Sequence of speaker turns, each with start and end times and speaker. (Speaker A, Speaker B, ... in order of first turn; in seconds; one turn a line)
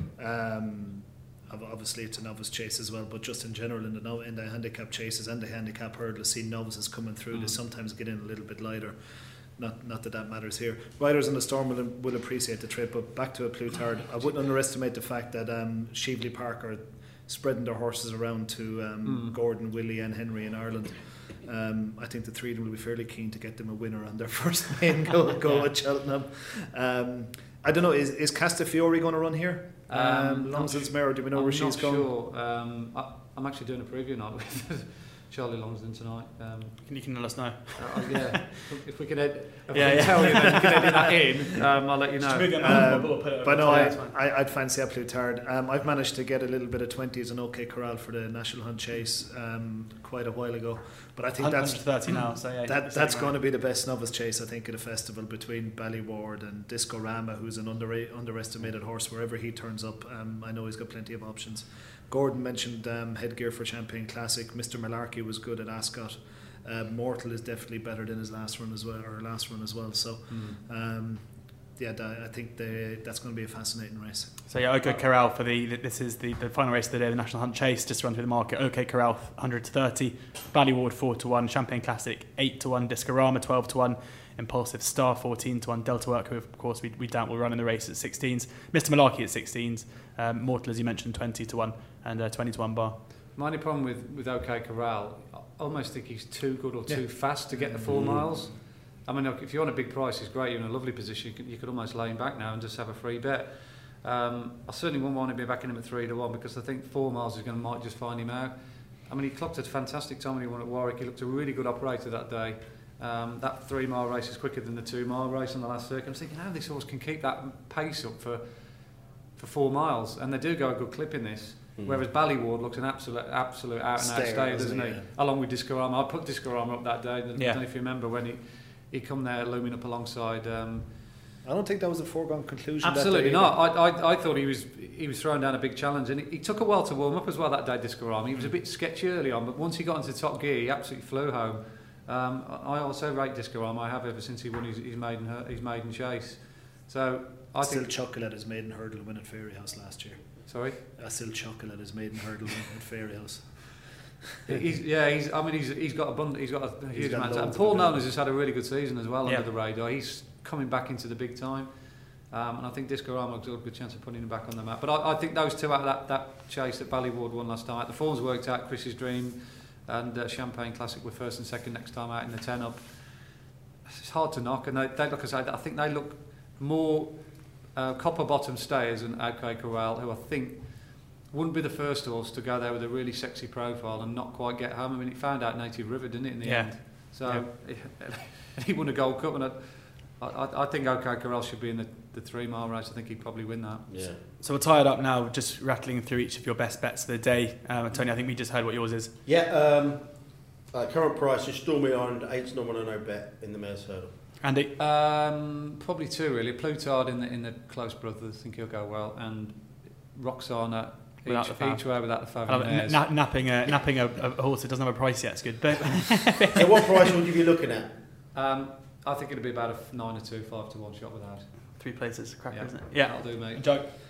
Speaker A: 0.2-32.1
Speaker B: 19.0-19.3
Speaker B: 29.9-36.9
Speaker C: 36.9-38.2
Speaker B: 37.8-42.9
Speaker C: 39.7-40.9
Speaker C: 42.2-44.1
Speaker A: 42.5-75.0
Speaker C: 51.4-53.4
Speaker B: 70.3-70.6
Speaker C: 74.5-93.0
Speaker B: 93.3-130.9
Speaker A: 96.9-98.5
Speaker D: 97.8-98.3
Speaker D: 121.8-122.0
Speaker A: 124.0-125.1
Speaker A: 131.4-133.6
Speaker B: 132.8-147.9
Speaker A: 147.6-154.6
Speaker B: 150.5-150.8
Speaker B: 154.5-193.9
Speaker A: 156.9-158.1
Speaker C: 186.4-187.5
Speaker D: 193.9-194.2
Speaker C: 194.3-199.1
Speaker D: 199.2-204.1
Speaker C: 204.4-204.7
Speaker B: 204.8-213.0
Speaker C: 211.2-216.8
Speaker D: 216.5-217.9
Speaker B: 218.3-221.8
Speaker C: 221.8-223.9
Speaker B: 222.5-223.7